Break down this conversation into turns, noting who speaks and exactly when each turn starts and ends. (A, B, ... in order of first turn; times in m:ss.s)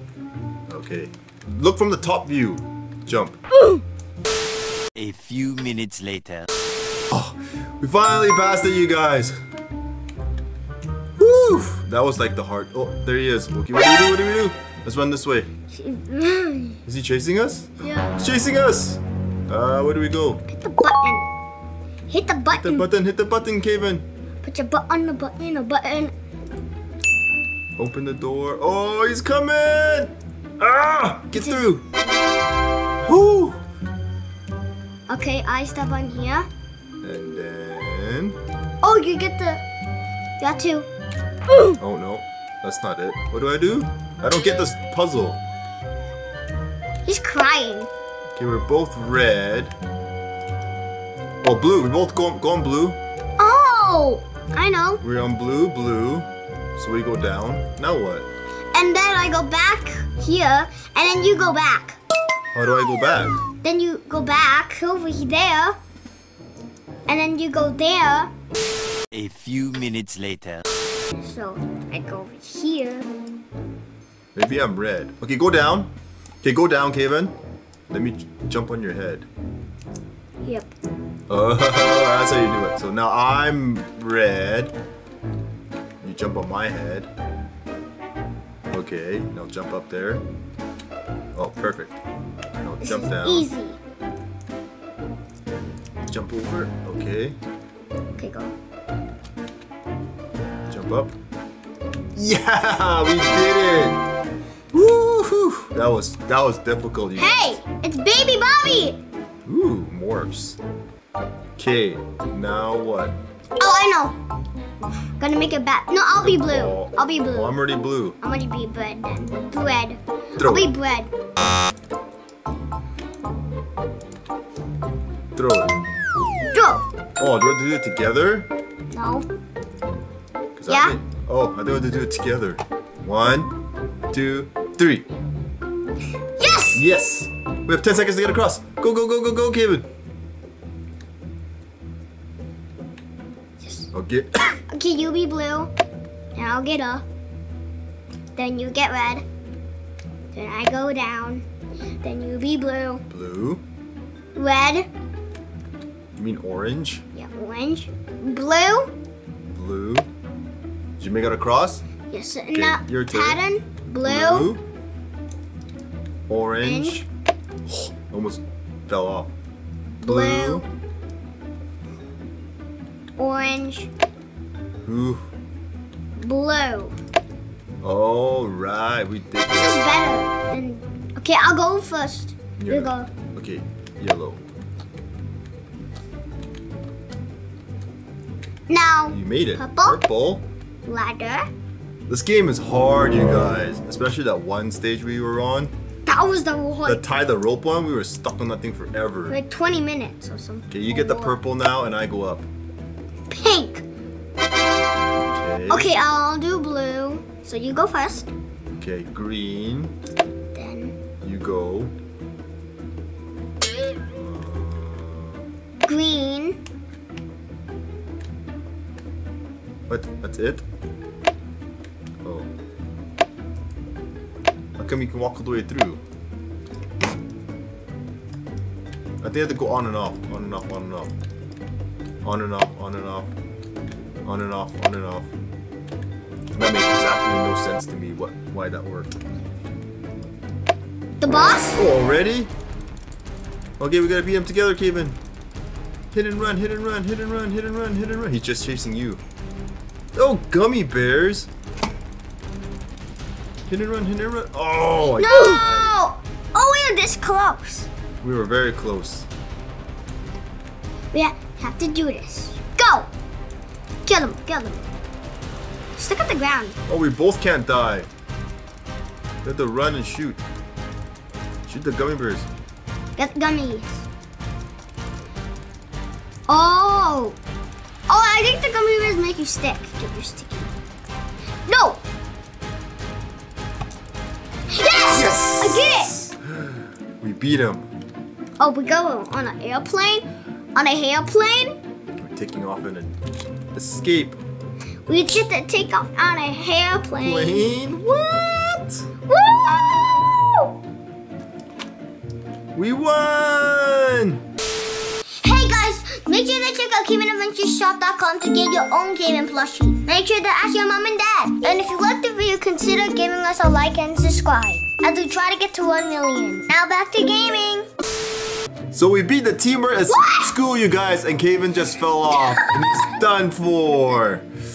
0:00.7-0:03.4 A
0:05.0-0:06.5 B
0:07.1-0:09.4 A
0:11.2-0:15.5 A
0:15.7-0:16.8 C
0:16.9-0:20.4 A
0:17.8-0:18.2 C
0:20.5-0:21.3 C
0:22.1-0:22.9 C
0:22.6-0:24.1 A
0:24.4-0:26.1 C
0:27.8-0:31.8 A
0:31.4-0:31.6 C
0:33.0-0:33.6 A
0:35.1-0:36.5 C
0:37.0-0:38.4 A
0:38.8-0:39.6 C
0:40.4-0:40.9 C
0:41.8-0:45.4 A
0:47.0-0:47.9 C
0:48.4-0:49.7 A
0:51.4-0:53.0 A
0:53.4-0:55.0 C
0:55.0-0:58.3 A
0:58.7-1:02.0 C
1:02.5-1:03.4 A
1:03.6-1:05.8 C
1:07.1-1:08.3 C
1:09.1-1:10.6 B
1:11.2-1:13.1 C
1:14.4-1:15.9 A
1:16.4-1:17.3 A
1:17.9-1:19.3 A
1:20.4-1:20.7 C
1:21.3-1:24.7 A
1:26.0-1:27.1 A
1:28.7-1:30.2 A
1:31.3-1:31.9 A
1:32.6-1:33.5 A
1:32.8-1:33.8 C
1:36.1-1:37.4 A
1:38.2-1:38.5 C
1:40.7-1:41.1 A
1:42.2-1:44.0 A
1:44.7-1:47.5 A
1:47.2-1:49.0 C
1:49.5-1:50.6 A
1:51.6-1:53.2 A
1:53.6-1:54.2 C
1:55.2-1:57.6 C
1:56.2-1:58.2 A
1:58.2-2:01.1 C
2:00.4-2:00.7 A
2:05.4-2:05.7 A
2:06.5-2:06.8 C
2:07.2-2:08.5 A
2:08.9-2:09.3 C
2:10.6-2:13.5 A
2:10.7-2:11.0 C
2:14.1-2:15.1 A
2:16.4-2:16.8 C
2:16.8-2:19.9 A
2:23.6-2:23.9 C
2:23.9-2:24.5 A
2:24.6-2:25.7 C
2:26.4-2:27.0 C
2:28.4-2:29.2 C
2:30.3-2:31.4 C
2:32.0-2:33.0 C
2:33.1-2:33.6 A
2:34.4-2:34.9 C
2:36.2-2:37.0 A
2:37.1-2:38.9 C
2:39.5-2:40.1 A
2:41.0-2:41.8 A
2:42.1-2:44.5 C
2:42.5-2:43.4 A
2:44.0-2:44.6 A
2:46.3-2:47.1 A
2:46.6-2:47.0 C
2:47.7-2:49.3 A
2:50.0-2:50.7 C
2:50.0-2:50.7 A
2:53.2-2:53.9 C
2:54.8-2:55.2 A
2:56.2-2:57.0 C
2:57.8-2:59.9 A
2:59.5-3:03.1 C
3:02.6-3:04.4 A
3:08.7-3:10.0 C
3:09.1-3:10.5 A
3:10.8-3:11.5 C
3:12.1-3:15.7 A
3:16.1-3:17.0 C
3:16.8-3:19.4 A
3:19.3-3:21.4 C
3:20.7-3:22.5 A
3:23.3-3:23.8 C
3:25.2-3:25.9 A
3:25.7-3:28.3 C
3:28.8-3:29.9 A
3:30.5-3:31.0 C
3:31.2-3:31.9 A
3:34.2-3:35.4 A
3:35.8-3:36.6 C
3:39.9-3:40.7 A
3:42.2-3:42.5 A
3:44.8-3:46.0 A
3:49.2-3:51.1 A
3:52.2-3:53.3 A
3:54.2-3:55.3 A
3:56.6-3:59.1 A
4:01.2-4:01.9 C
4:01.8-4:02.5 A
4:03.8-4:05.2 A
4:06.1-4:09.2 A
4:10.2-4:11.5 A
4:13.7-4:15.9 A
4:15.2-4:17.9 C
4:18.2-4:19.3 A
4:21.1-4:23.1 C
4:24.0-4:24.9 C
4:26.0-4:26.8 C
4:26.9-4:28.1 A
4:29.4-4:30.4 A
4:31.7-4:32.5 A
4:33.2-4:34.0 C
4:36.5-4:37.4 C
4:38.1-4:40.7 C
4:41.7-4:42.0 C
4:44.7-4:46.3 C
4:45.1-4:47.9 A
4:48.6-4:51.8 C
4:52.2-4:53.2 A
4:53.7-4:54.4 A
4:55.1-4:57.8 C
4:57.2-4:59.1 A
4:59.3-5:00.7 C
5:02.7-5:04.4 A
5:05.4-5:17.9 C
5:18.9-5:24.5 A
5:20.1-5:20.5 C
5:22.3-5:23.0 C